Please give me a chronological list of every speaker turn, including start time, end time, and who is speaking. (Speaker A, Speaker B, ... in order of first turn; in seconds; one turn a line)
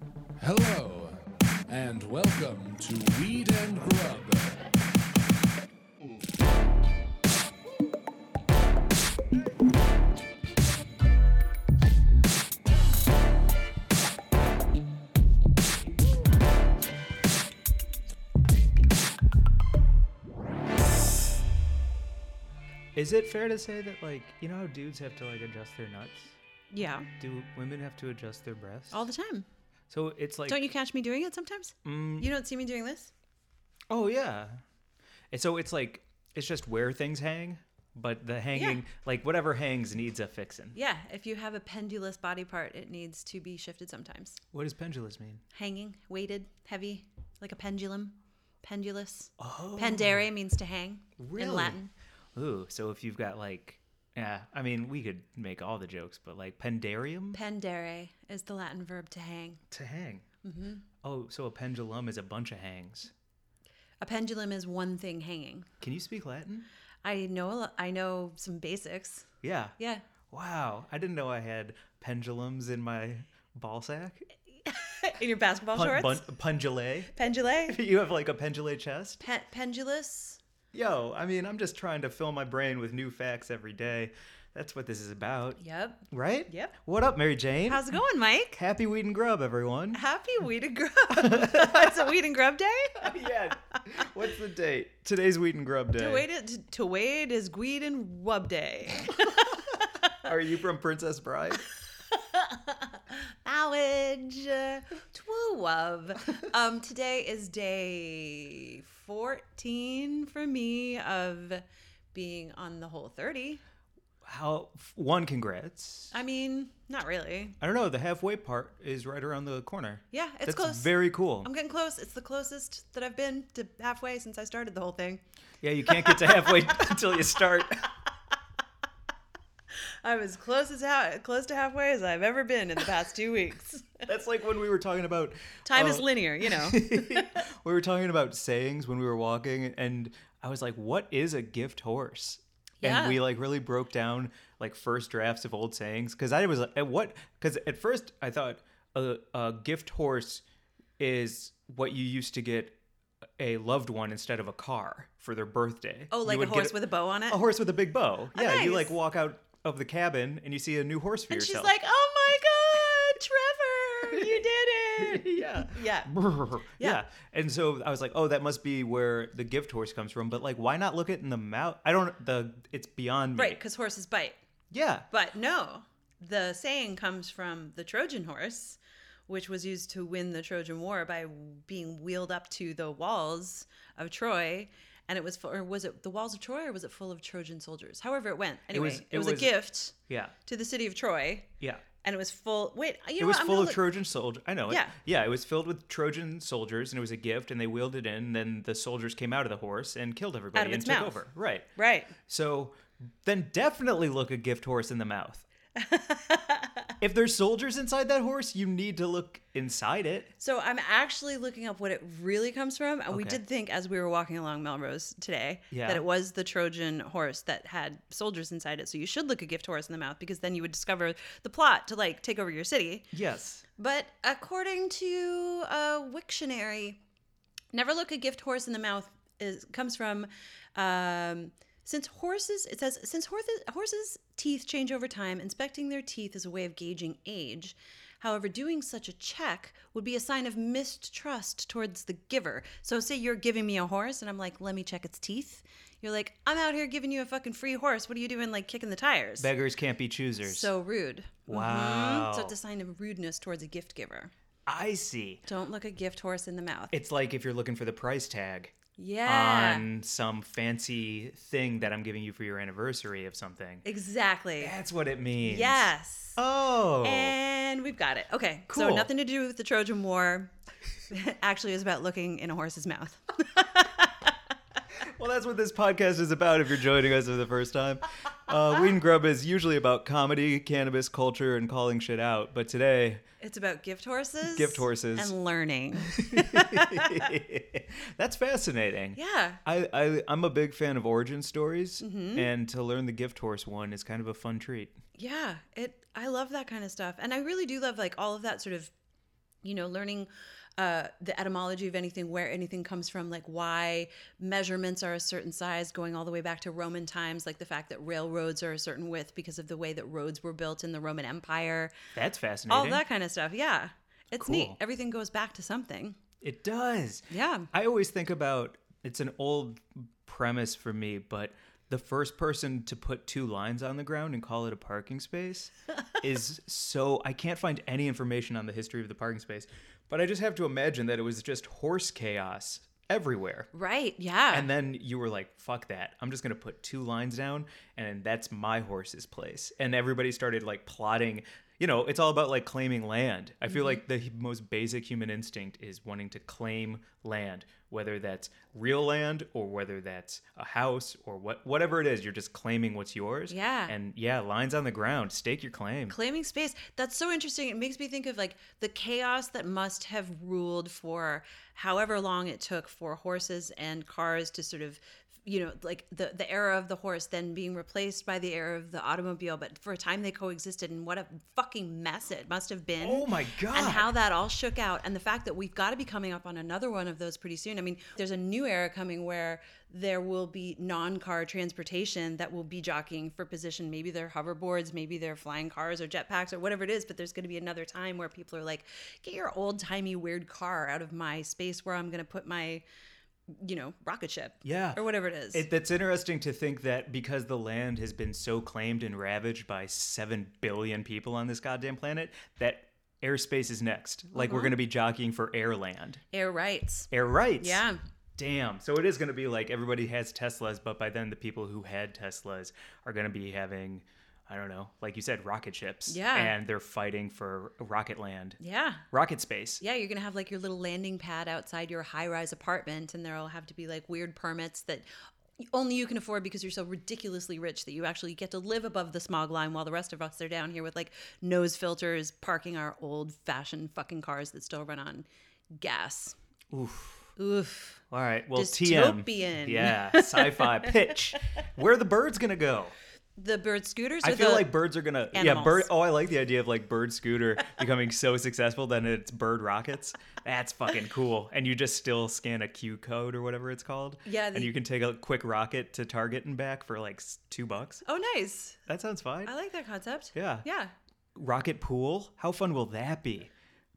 Speaker A: 0.4-4.6
Speaker B: 22.9-26.4
Speaker C: 26.7-27.1
Speaker B: 27.2-29.1
Speaker C: 28.9-29.5
Speaker B: 29.9-30.6
Speaker C: 30.5-33.1
Speaker B: 31.8-32.3
Speaker B: 33.9-34.6
Speaker B: 35.3-40.7
Speaker C: 38.5-38.8
Speaker C: 40.7-44.4
Speaker B: 44.5-45.4
Speaker C: 45.5-51.9
Speaker B: 49.4-50.3
Speaker B: 51.2-51.8
Speaker B: 52.3-57.4
Speaker C: 57.3-59.6
Speaker B: 59.7-60.2
Speaker C: 60.4-60.8
Speaker B: 61.0-63.1
Speaker C: 64.0-65.7
Speaker B: 65.8-66.7
Speaker C: 67.0-70.0
Speaker B: 69.4-69.8
Speaker B: 70.3-74.3
Speaker C: 74.6-76.2
Speaker B: 75.7-79.2
Speaker C: 77.1-77.8
Speaker C: 79.2-80.4
Speaker B: 80.7-87.8
Speaker C: 85.6-86.8
Speaker C: 87.7-88.6
Speaker B: 88.6-90.0
Speaker C: 89.9-94.1
Speaker B: 91.1-92.1
Speaker B: 93.0-96.3
Speaker C: 96.0-100.3
Speaker B: 100.2-101.7
Speaker C: 102.1-113.6
Speaker B: 114.2-116.1
Speaker C: 116.1-117.6
Speaker B: 117.6-121.5
Speaker C: 120.1-125.2
Speaker B: 125.6-127.9
Speaker C: 125.9-126.8
Speaker C: 130.0-134.0
Speaker B: 134.1-150.4
Speaker C: 135.7-137.3
Speaker C: 142.8-143.2
Speaker B: 151.0-152.8
Speaker B: 153.4-156.8
Speaker C: 156.1-157.4
Speaker B: 157.3-161.7
Speaker C: 158.3-158.9
Speaker C: 161.3-166.1
Speaker B: 164.1-164.4
Speaker B: 165.0-173.6
Speaker C: 173.3-174.4
Speaker B: 174.7-175.1
Speaker C: 175.1-191.5
Speaker B: 188.7-189.6
Speaker B: 190.1-190.3
Speaker C: 192.0-193.8
Speaker B: 193.2-201.7
Speaker C: 194.7-194.9
Speaker C: 200.5-201.2
Speaker C: 201.8-202.1
Speaker B: 202.2-205.4
Speaker C: 205.8-206.9
Speaker B: 207.0-210.3
Speaker C: 210.4-223.1
Speaker B: 213.1-213.4
Speaker B: 215.7-216.0
Speaker B: 223.1-223.7
Speaker C: 223.8-227.0
Speaker C: 227.7-249.5
Speaker B: 249.4-250.7
Speaker C: 250.4-254.3
Speaker B: 251.5-252.6
Speaker B: 254.7-255.4
Speaker C: 255.5-256.9
Speaker B: 256.9-263.9
Speaker C: 259.0-259.9
Speaker C: 263.9-264.7
Speaker B: 264.6-267.4
Speaker C: 265.4-266.4
Speaker C: 267.0-270.5
Speaker B: 268.7-269.1
Speaker C: 271.1-274.3
Speaker B: 275.0-283.2
Speaker C: 283.4-287.3
Speaker B: 284.5-285.3
Speaker B: 286.1-295.0
Speaker C: 289.1-289.6
Speaker C: 292.0-292.5
Speaker C: 295.1-298.9
Speaker C: 299.6-312.0
Speaker B: 312.1-313.0
Speaker C: 312.7-316.2
Speaker B: 314.4-314.8
Speaker B: 316.4-333.7
Speaker C: 317.3-317.7
Speaker C: 333.7-334.7
Speaker B: 334.5-356.2
Speaker C: 353.5-353.9
Speaker C: 356.1-392.8
Speaker B: 373.0-374.1
Speaker C: 393.5-395.7
Speaker B: 394.6-406.2
Speaker C: 404.4-404.8
Speaker C: 406.3-408.0
Speaker B: 407.1-407.8
Speaker B: 408.4-418.6
Speaker C: 416.1-416.6
Speaker C: 418.6-419.0
Speaker B: 419.1-419.8
Speaker C: 419.8-425.1
Speaker C: 425.6-436.4
Speaker B: 436.7-437.3
Speaker C: 437.4-438.0
Speaker B: 438.1-442.9
Speaker C: 438.5-441.1
Speaker C: 443.4-444.7
Speaker B: 444.2-458.0
Speaker C: 445.3-445.9
Speaker C: 454.2-454.7
Speaker C: 458.1-458.8
Speaker B: 458.9-459.5
Speaker C: 459.4-460.9
Speaker B: 460.3-460.6
Speaker B: 461.4-463.5